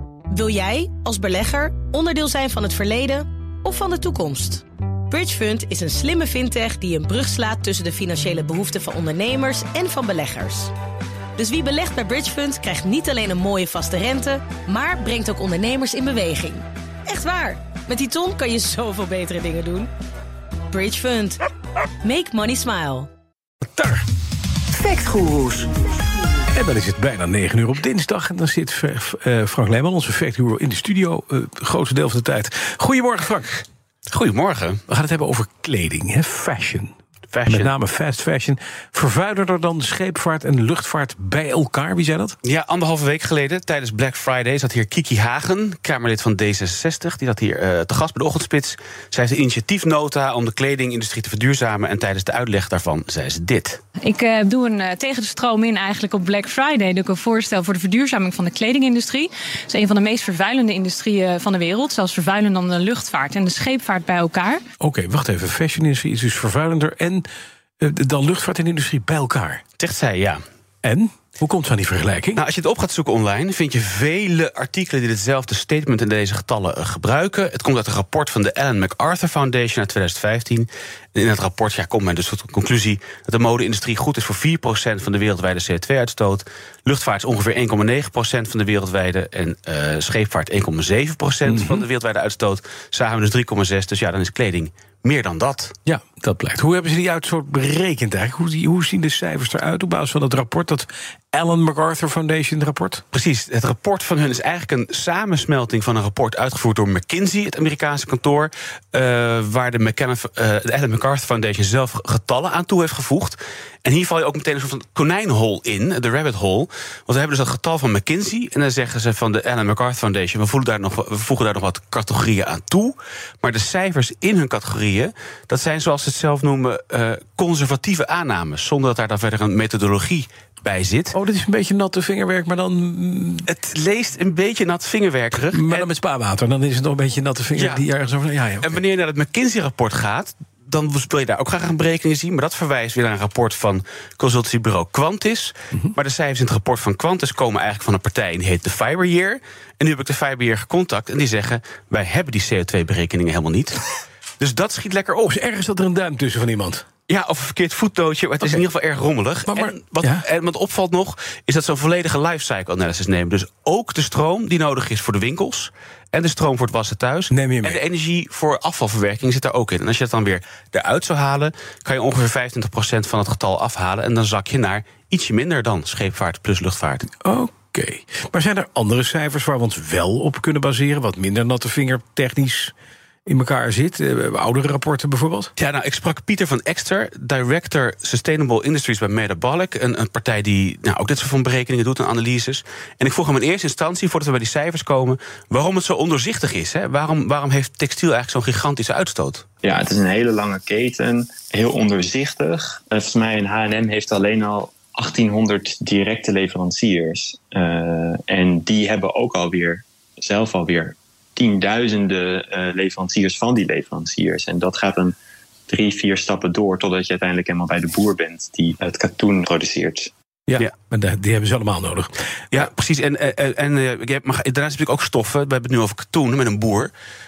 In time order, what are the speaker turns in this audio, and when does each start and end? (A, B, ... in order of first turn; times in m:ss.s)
0:00.3-0:10.7 A
0:11.4-0:19.9 A
0:20.7-0:21.4 A
0:22.0-0:23.1 A
0:23.6-0:24.0 B
0:25.1-0:25.5 A
0:26.5-0:33.6 B
0:34.1-0:34.8 C
0:34.9-0:36.9 B
0:37.3-0:37.7 C
0:37.5-0:42.4 B
0:42.4-0:53.8 C
0:54.0-1:04.6 D
1:04.8-1:07.2 B
1:07.8-1:09.6 B
1:09.8-1:10.4 C
1:10.8-1:12.4 B
1:12.4-1:35.7 C
1:31.5-1:31.8 B
1:35.8-1:43.0 B
1:43.1-2:11.1 C
2:11.1-2:13.5 B
2:13.4-2:15.9 C
2:15.5-2:18.7 B
2:17.6-2:17.8 C
2:18.6-2:33.8 C
2:34.4-2:35.3 C
2:35.3-2:36.8 B
2:37.1-2:57.1 C
2:39.5-2:40.2 B
2:47.3-2:47.8 B
2:57.2-3:02.7 B
3:03.2-3:05.5 B
3:05.6-3:19.4 C
3:19.6-3:35.1 E
3:35.7-3:40.1 E
3:40.5-3:42.1 B
3:42.5-3:46.9 C